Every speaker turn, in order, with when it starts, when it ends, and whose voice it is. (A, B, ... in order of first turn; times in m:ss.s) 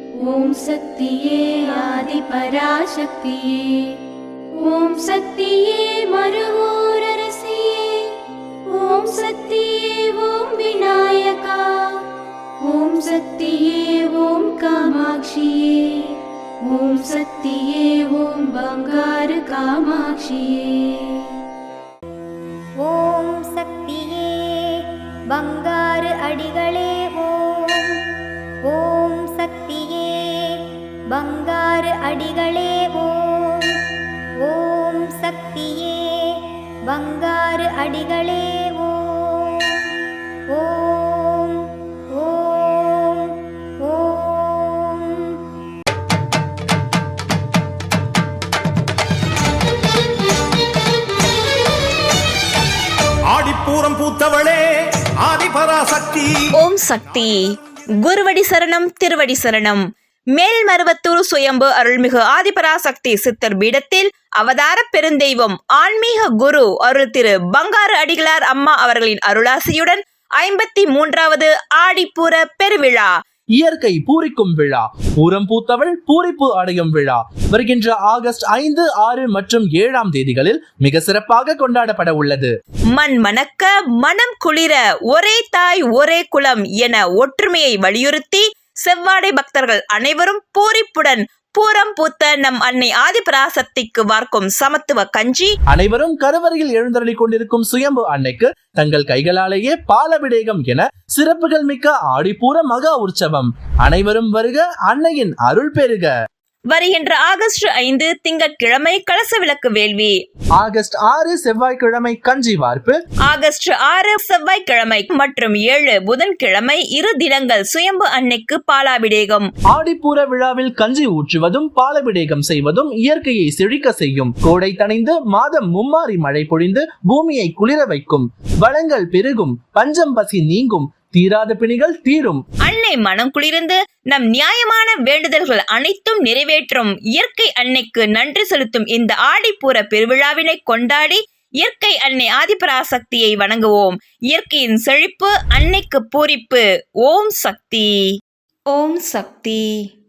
0:00.2-0:03.9 A
0:04.6-0:08.1 A
0:08.7-0:11.6 A
0:12.7-0:16.1 A
0:16.7-0:21.1 A
0:22.8-0:28.0 B
0:28.6-0:33.8 B
0:34.4-0:39.9 B
0:40.5-0:45.4 B
0:53.3-0:54.7 C
0:55.2-0:56.3 C
0:56.5-0:57.4 D
0:58.0-0:59.8 D
1:00.4-1:13.1 D
1:13.6-1:22.5 E
1:22.9-1:35.5 D
1:35.7-1:46.1 E
1:46.7-1:50.2 D
1:50.6-1:53.0 E
1:53.3-1:59.5 D
1:59.7-2:12.4 E
2:12.6-2:27.9 D
2:28.7-2:29.7 D